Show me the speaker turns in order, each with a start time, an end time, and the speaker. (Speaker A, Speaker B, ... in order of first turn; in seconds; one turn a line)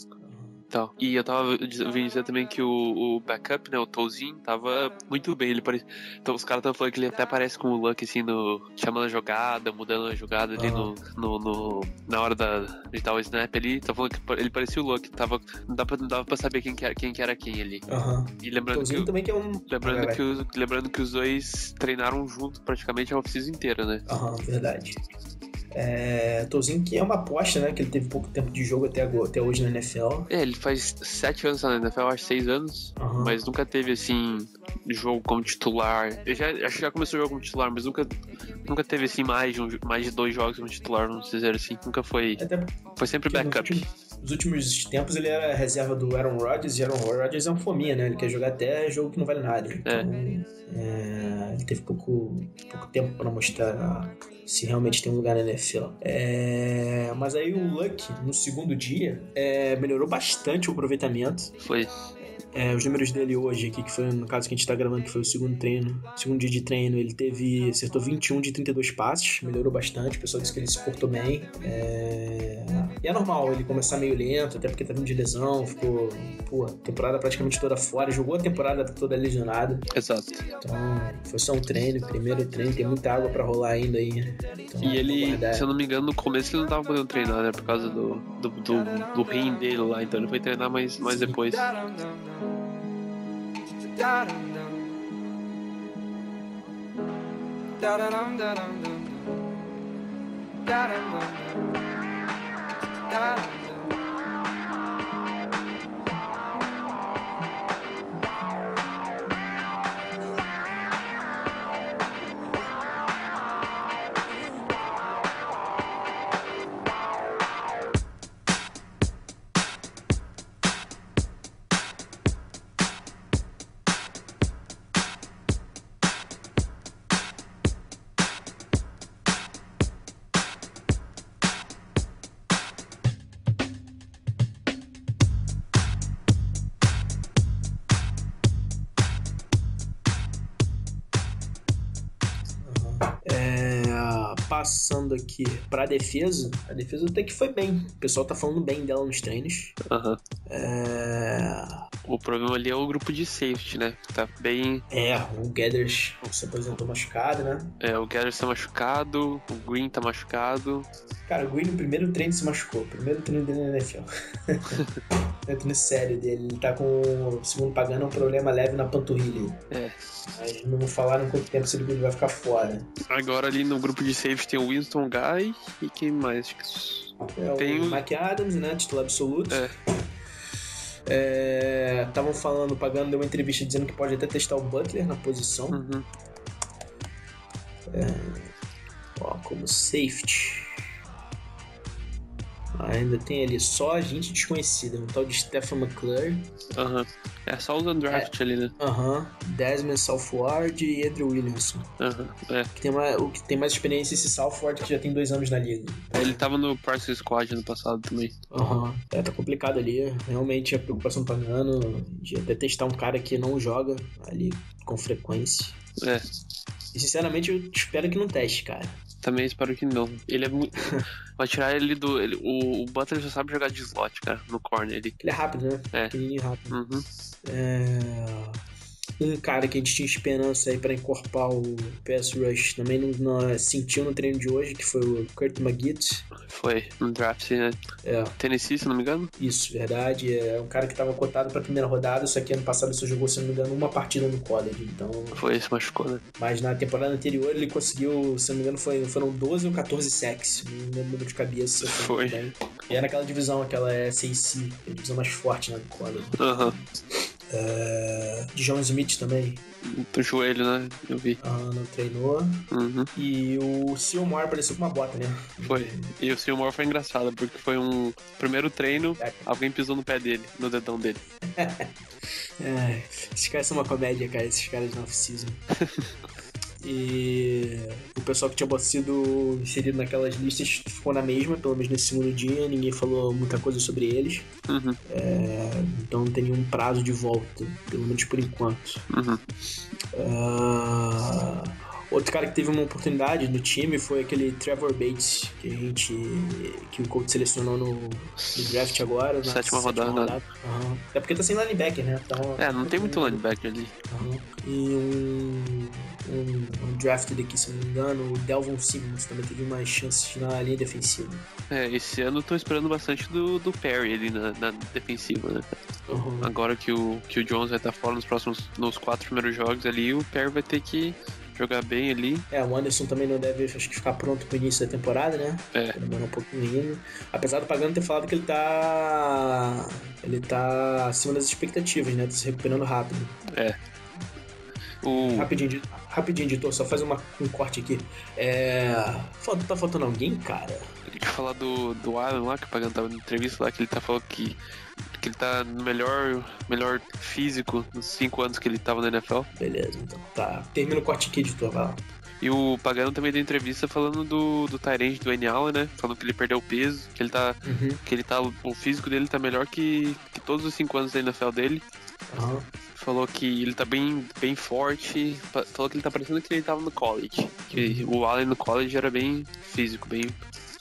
Speaker A: 0.2-0.6
Speaker B: 0.7-17.9
Speaker A: 10.6-10.9
Speaker A: 17.9-20.2
Speaker B: 18.4-19.1
Speaker B: 19.7-24.0
Speaker A: 24.1-25.0
Speaker A: 25.7-30.3
Speaker B: 30.3-38.1
Speaker A: 33.0-33.4
Speaker B: 38.7-42.4
Speaker A: 42.4-61.5
Speaker B: 43.0-43.9
Speaker B: 61.6-61.9
Speaker A: 62.5-79.9
Speaker B: 79.9-80.4
Speaker A: 80.6-85.7
Speaker B: 84.8-91.7
Speaker C: 88.7-89.6
Speaker A: 91.0-91.4
Speaker C: 91.3-92.7
Speaker C: 93.7-95.0
Speaker C: 97.8-99.5
Speaker C: 100.7-102.0
Speaker C: 103.1-104.0
Speaker A: 142.6-149.8
Speaker B: 149.8-150.2
Speaker A: 150.5-151.8
Speaker B: 152.1-154.8
Speaker A: 154.9-157.8
Speaker B: 157.8-160.9
Speaker A: 161.3-164.8
Speaker B: 164.7-165.0
Speaker A: 165.4-169.6
Speaker B: 169.7-170.3
Speaker A: 170.3-172.9
Speaker B: 173.1-178.0
Speaker A: 177.4-179.7
Speaker A: 181.1-185.8
Speaker B: 185.7-186.1
Speaker A: 187.9-188.5
Speaker A: 189.2-190.8
Speaker A: 192.7-196.5
Speaker B: 196.7-198.8
Speaker A: 198.1-201.9
Speaker B: 202.0-202.7
Speaker A: 202.8-206.4
Speaker B: 206.1-208.4
Speaker A: 208.5-215.8
Speaker B: 216.0-216.2
Speaker A: 216.9-219.0
Speaker B: 219.2-225.2
Speaker A: 225.2-226.8
Speaker B: 226.7-227.1
Speaker A: 227.4-228.6
Speaker A: 229.2-236.3
Speaker B: 236.4-237.8
Speaker A: 238.0-238.3
Speaker B: 238.4-239.3
Speaker A: 239.4-245.4
Speaker B: 245.3-246.2
Speaker A: 246.4-256.9
Speaker B: 251.8-252.4
Speaker B: 256.4-256.8
Speaker A: 257.5-259.6
Speaker B: 259.8-261.4
Speaker A: 261.4-266.1
Speaker B: 262.7-263.1
Speaker B: 265.6-271.2
Speaker A: 269.2-269.5
Speaker A: 271.5-271.9
Speaker A: 272.6-275.6
Speaker B: 275.8-276.1
Speaker A: 276.8-284.5
Speaker B: 284.7-285.0
Speaker A: 285.1-289.0
Speaker B: 289.1-289.4
Speaker A: 290.1-303.4
Speaker B: 298.4-298.8
Speaker B: 299.4-300.4
Speaker B: 302.6-303.9
Speaker A: 304.1-311.5
Speaker B: 311.7-315.7
Speaker A: 316.1-316.5
Speaker B: 316.4-322.5
Speaker A: 322.5-333.4
Speaker B: 333.5-333.8
Speaker B: 335.0-335.5
Speaker A: 335.1-340.9
Speaker B: 341.1-344.6
Speaker B: 345.1-349.5
Speaker A: 349.6-352.0
Speaker B: 352.4-361.8
Speaker A: 357.6-358.0
Speaker A: 362.3-362.7
Speaker B: 362.9-370.4
Speaker A: 367.7-368.1